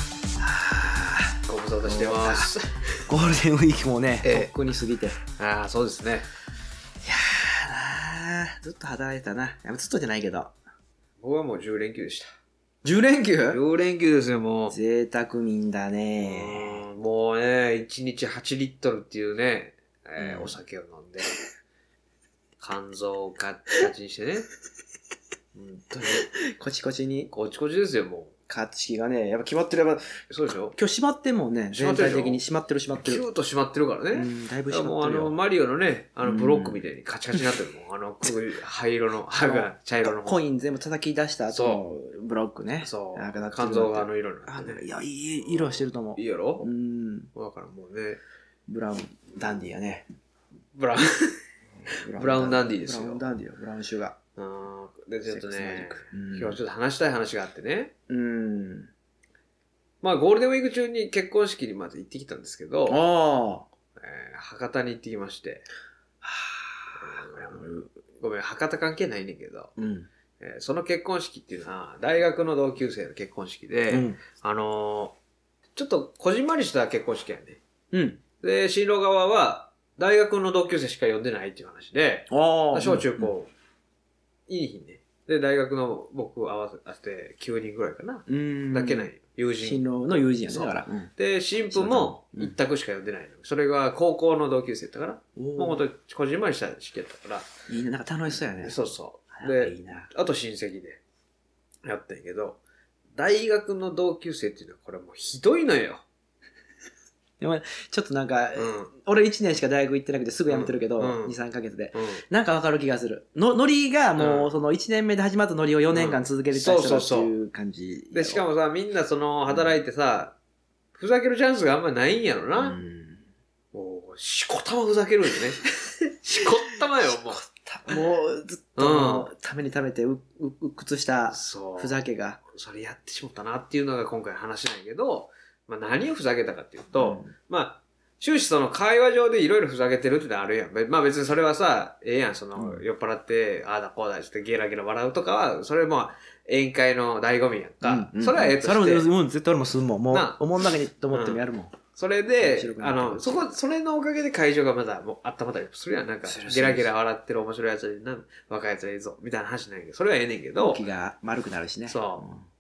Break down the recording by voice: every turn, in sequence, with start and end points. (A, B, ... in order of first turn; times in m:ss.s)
0:00.4-0:02.5 A
0:01.5-0:03.0 B
0:03.1-0:05.2 A
0:04.2-0:04.5 B
0:05.4-0:06.3 B
0:07.0-0:10.5 A
0:11.2-0:12.3 B
0:12.8-0:13.6 A
0:13.5-0:14.7 B
0:14.7-0:16.8 A
0:16.2-0:21.3 B
0:20.2-0:20.5 A
0:22.6-0:24.5 B
0:25.5-0:26.3 B
0:26.5-0:27.3 A
0:27.3-0:28.3 B
0:28.5-0:30.1 A
0:30.3-0:30.8 B
0:30.8-0:33.2 A
0:31.7-0:32.4 B
0:33.0-0:40.4 B
0:34.1-0:35.4 A
0:36.2-0:36.8 A
0:39.4-0:47.3 A
0:41.5-0:41.8 B
0:42.8-0:44.8 B
0:45.4-0:46.7 B
0:47.3-0:48.2 B
0:48.7-0:50.0 A
0:50.7-0:51.4 B
0:51.8-0:54.2 A
0:52.2-0:53.2 B
0:54.4-0:57.9 B
0:55.3-0:56.6 A
0:58.1-0:58.9 A
1:00.0-1:03.0 B
1:02.9-1:03.7 A
1:04.0-1:05.6 B
1:06.2-1:07.9 A
1:07.0-1:07.6 B
1:08.2-1:09.7 B
1:09.8-1:10.1 A
1:10.4-1:15.2 B
1:13.9-1:14.2 A
1:15.8-1:17.6 B
1:17.9-1:18.2 A
1:18.4-1:23.5 B
1:22.3-1:23.3 A
1:24.5-1:37.5 B
1:28.3-1:29.1 A
1:29.6-1:31.1 A
1:31.7-1:32.5 A
1:35.4-1:35.8 A
1:37.7-1:38.8 A
1:38.6-1:41.0 B
1:39.4-1:40.1 A
1:41.8-1:42.6 B
1:43.2-1:46.0 B
1:47.4-1:58.4 A
1:48.6-1:48.9 B
1:50.5-1:51.4 B
1:51.9-1:52.2 B
1:54.2-1:54.5 B
1:55.9-1:57.3 B
1:58.1-2:00.4 B
1:59.5-1:59.7 A
2:01.0-2:02.8 B
2:02.6-2:03.2 A
2:03.7-2:05.6 B
2:06.2-2:07.4 B
2:07.0-2:12.4 A
2:08.8-2:09.3 B
2:11.3-2:29.1 B
2:17.0-2:17.3 A
2:22.6-2:22.8 A
2:27.8-2:31.8 A
2:30.1-2:30.4 B
2:31.1-2:31.4 B
2:32.0-2:40.8 B
2:32.4-2:33.5 A
2:36.2-2:36.9 A
2:40.6-2:42.4 A
2:41.9-2:42.2 B